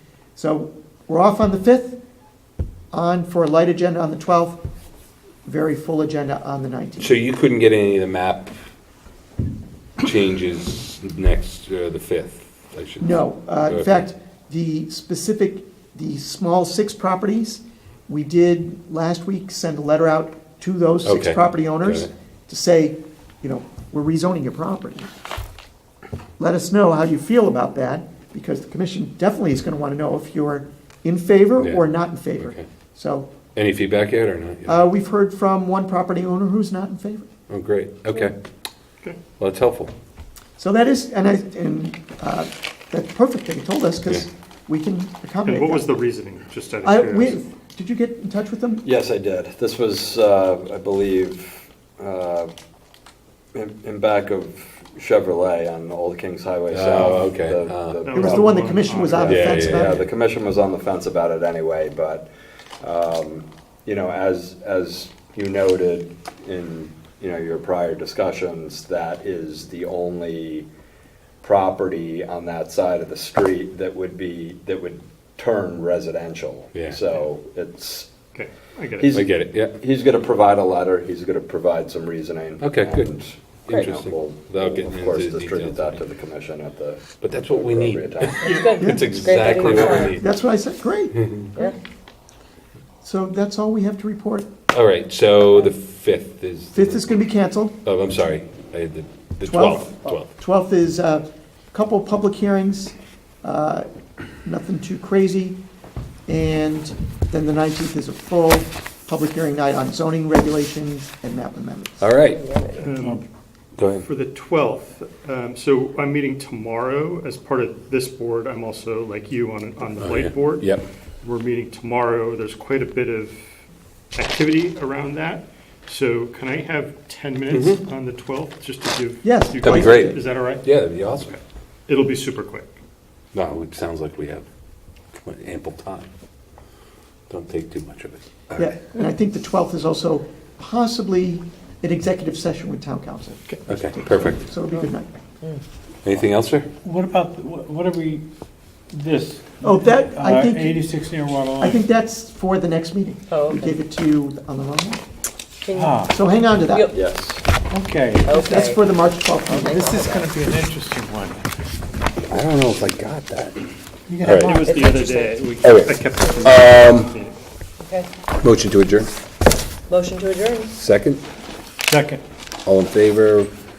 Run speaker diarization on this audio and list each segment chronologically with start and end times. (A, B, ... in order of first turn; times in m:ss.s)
0:00.4-0:02.0 A
0:02.9-0:04.6 A
0:05.4-0:07.1 A
0:07.0-0:08.5 B
0:10.0-0:13.9 B
0:13.0-0:25.1 A
0:21.0-0:22.1 B
0:26.4-0:33.3 A
0:31.6-0:31.8 B
0:32.4-0:32.6 B
0:33.5-0:34.8 B
0:34.6-0:37.3 A
0:37.5-0:38.3 B
0:39.4-0:39.9 B
0:40.6-0:45.9 A
0:45.4-0:47.4 C
0:46.8-0:48.9 A
0:48.8-0:52.5 D
0:53.5-1:02.3 D
0:56.7-0:58.1 B
0:58.0-0:59.6 C
0:58.1-1:00.0 A
0:59.2-1:00.1 B
1:02.8-1:10.7 D
1:11.4-1:18.1 D
1:16.7-1:17.0 B
1:18.3-1:19.1 C
1:19.0-1:28.7 D
1:19.1-1:19.7 B
1:22.6-1:23.1 B
1:23.7-1:26.0 B
1:27.2-1:30.2 B
1:28.4-1:30.2 E
1:28.7-1:29.1 A
1:29.6-1:31.7 A
1:31.1-1:31.5 B
1:33.0-1:34.5 A
1:34.7-1:37.1 B
1:36.7-1:37.8 A
1:37.8-1:40.3 B
1:39.4-1:43.9 A
1:44.4-1:45.6 A
1:46.3-1:52.1 A
1:52.0-1:52.4 B
1:52.3-1:52.9 E
1:52.8-1:53.2 C
1:53.0-1:53.2 F
1:53.8-1:54.1 B
1:54.0-2:03.4 C
2:00.0-2:00.8 B
2:04.1-2:12.7 C
2:07.5-2:07.8 B
2:09.2-2:10.2 A
2:09.6-2:11.3 B
2:13.3-2:14.4 B
2:15.1-2:16.1 B
2:17.3-2:18.7 B
2:18.6-2:25.2 A
2:23.7-2:24.4 B
2:26.0-2:26.7 B
2:26.8-2:28.2 F
2:28.9-2:31.8 F
2:29.6-2:30.8 A
2:31.6-2:35.0 A
2:33.3-2:33.8 E
2:35.6-2:36.1 E
2:35.7-2:36.2 F
2:36.1-2:36.9 A
2:36.7-2:37.0 E
2:36.9-2:37.4 D
2:37.7-2:38.7 F
2:38.2-2:38.9 E
2:38.3-2:40.2 A
2:39.4-2:40.1 E
2:39.5-2:41.5 F
2:42.3-2:43.6 B
2:44.1-2:44.8 F
2:44.2-2:44.5 B
2:44.3-2:47.4 C
2:44.5-2:45.4 E
2:45.6-2:47.1 B
2:47.8-2:48.1 E
2:48.4-2:49.1 B
2:49.9-2:50.7 E
2:50.8-2:51.2 B
2:51.9-2:52.2 F
2:52.6-2:53.5 B